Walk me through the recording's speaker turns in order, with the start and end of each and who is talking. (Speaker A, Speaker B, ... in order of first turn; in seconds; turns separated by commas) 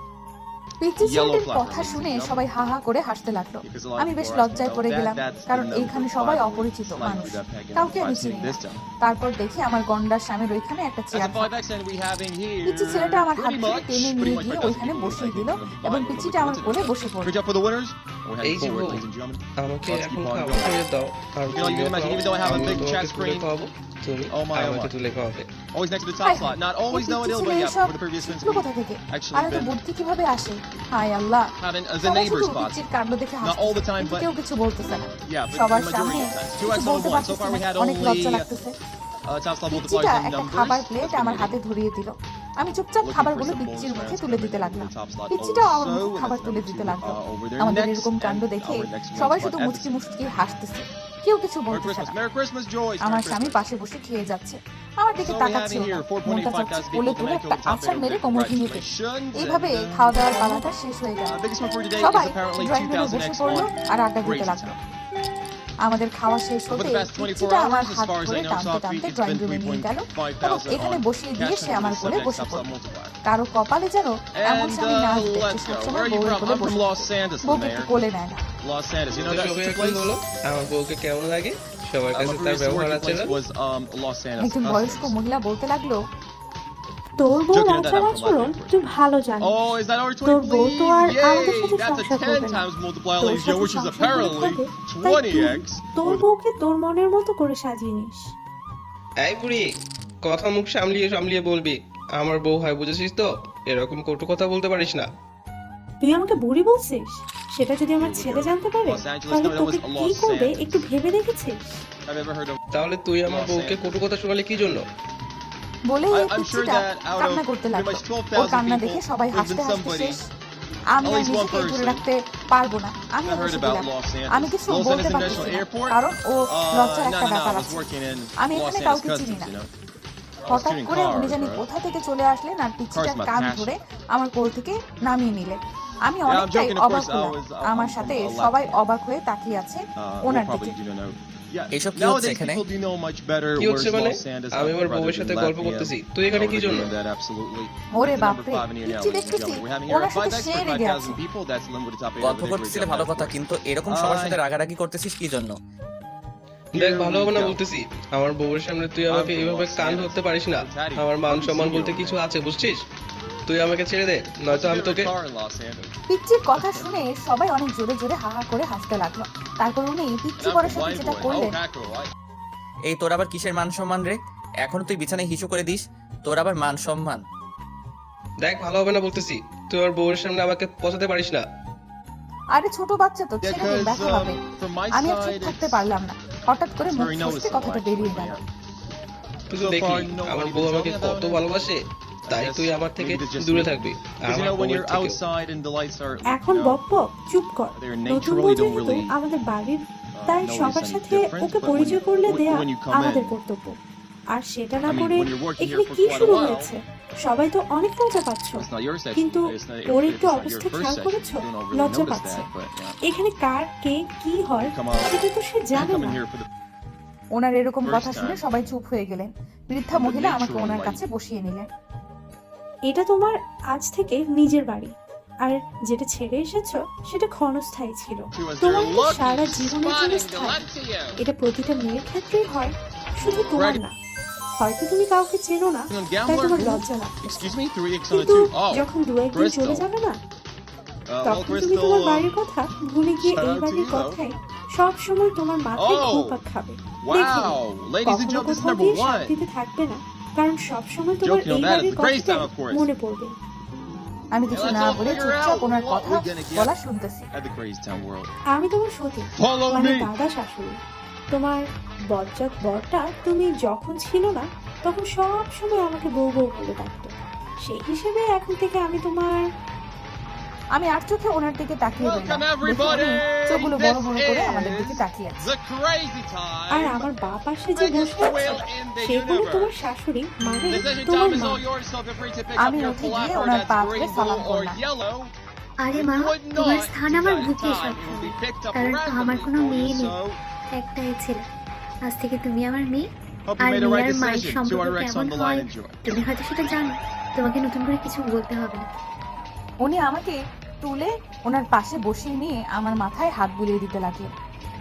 Speaker A: 0.8-11.6, Speaker B: 1.0-2.4, Speaker B: 3.6-8.8, Speaker B: 11.1-20.8, Speaker A: 12.7-17.3, Speaker C: 18.4-19.0, Speaker C: 19.6-25.5, Speaker B: 21.5-23.5, Speaker B: 24.3-24.9, Speaker B: 25.7-29.7, Speaker A: 26.2-31.5, Speaker B: 31.6-32.8, Speaker A: 32.0-38.7, Speaker B: 33.4-34.3, Speaker B: 35.2-38.5, Speaker B: 39.3-41.6, Speaker A: 39.7-52.1, Speaker B: 43.0-50.3, Speaker B: 51.7-53.7, Speaker A: 53.0-61.3, Speaker B: 55.2-60.8, Speaker B: 61.3-63.7, Speaker A: 62.0-64.8, Speaker B: 64.2-64.8, Speaker A: 65.8-72.7, Speaker B: 66.8-73.2, Speaker A: 73.3-78.4, Speaker B: 74.4-78.0, Speaker B: 78.6-80.1, Speaker C: 79.2-83.4, Speaker B: 82.1-85.2, Speaker A: 84.4-86.0, Speaker D: 87.2-89.7, Speaker B: 87.5-88.8, Speaker B: 89.4-96.2, Speaker D: 90.2-92.7, Speaker D: 93.2-98.3, Speaker C: 99.2-99.6, Speaker C: 100.2-105.1, Speaker D: 106.0-111.8, Speaker B: 108.0-110.8, Speaker B: 112.1-112.6, Speaker C: 112.7-114.8, Speaker B: 113.3-114.0, Speaker A: 115.9-120.2, Speaker B: 116.1-120.2, Speaker A: 121.0-127.8, Speaker B: 121.0-122.0, Speaker B: 123.3-129.7, Speaker A: 128.4-129.5, Speaker B: 130.4-131.7, Speaker A: 130.5-140.8, Speaker B: 132.9-133.8, Speaker B: 136.3-138.8, Speaker B: 140.0-153.3, Speaker E: 141.7-142.6, Speaker C: 143.6-146.9, Speaker A: 148.0-151.2, Speaker E: 152.2-155.6, Speaker B: 153.9-154.4, Speaker C: 156.8-162.8, Speaker B: 156.8-157.6, Speaker B: 159.1-162.2, Speaker C: 163.5-165.1, Speaker B: 164.5-165.9, Speaker A: 166.1-171.6, Speaker B: 166.6-166.8, Speaker B: 170.4-172.1, Speaker E: 172.9-177.2, Speaker C: 178.4-181.4, Speaker A: 182.6-184.4, Speaker B: 183.4-185.8, Speaker A: 184.9-188.4, Speaker B: 186.9-188.4, Speaker C: 189.5-191.8, Speaker B: 189.5-191.7, Speaker C: 192.3-195.2, Speaker B: 192.3-196.8, Speaker D: 196.2-203.8, Speaker B: 197.8-199.2, Speaker B: 200.1-203.3, Speaker D: 204.3-212.5, Speaker B: 204.8-206.7, Speaker B: 208.6-213.0, Speaker D: 213.1-216.2, Speaker B: 214.6-215.2, Speaker B: 215.7-216.5, Speaker A: 217.3-221.7, Speaker B: 217.8-218.4, Speaker B: 219.9-221.0, Speaker D: 222.9-230.6, Speaker B: 228.3-231.2, Speaker D: 231.2-233.9, Speaker B: 233.5-233.8, Speaker D: 234.6-237.6, Speaker B: 235.9-239.9, Speaker D: 238.1-240.2, Speaker B: 241.1-242.4, Speaker D: 241.2-253.3, Speaker B: 243.2-244.2, Speaker B: 245.8-246.4, Speaker B: 247.0-249.3, Speaker B: 251.2-252.9, Speaker A: 254.3-257.3, Speaker B: 254.5-256.7, Speaker B: 257.3-258.3, Speaker D: 258.6-260.7, Speaker B: 259.3-260.1, Speaker D: 261.3-261.6, Speaker D: 262.1-267.1, Speaker D: 267.6-269.4, Speaker A: 270.8-275.5, Speaker B: 272.0-277.1, Speaker D: 276.7-281.6, Speaker B: 277.8-279.7, Speaker B: 280.7-285.3, Speaker A: 282.6-284.8, Speaker F: 285.8-290.2, Speaker B: 285.9-290.4, Speaker F: 290.7-291.4, Speaker F: 292.1-293.1, Speaker B: 293.5-296.0, Speaker F: 293.6-298.9, Speaker A: 299.8-304.3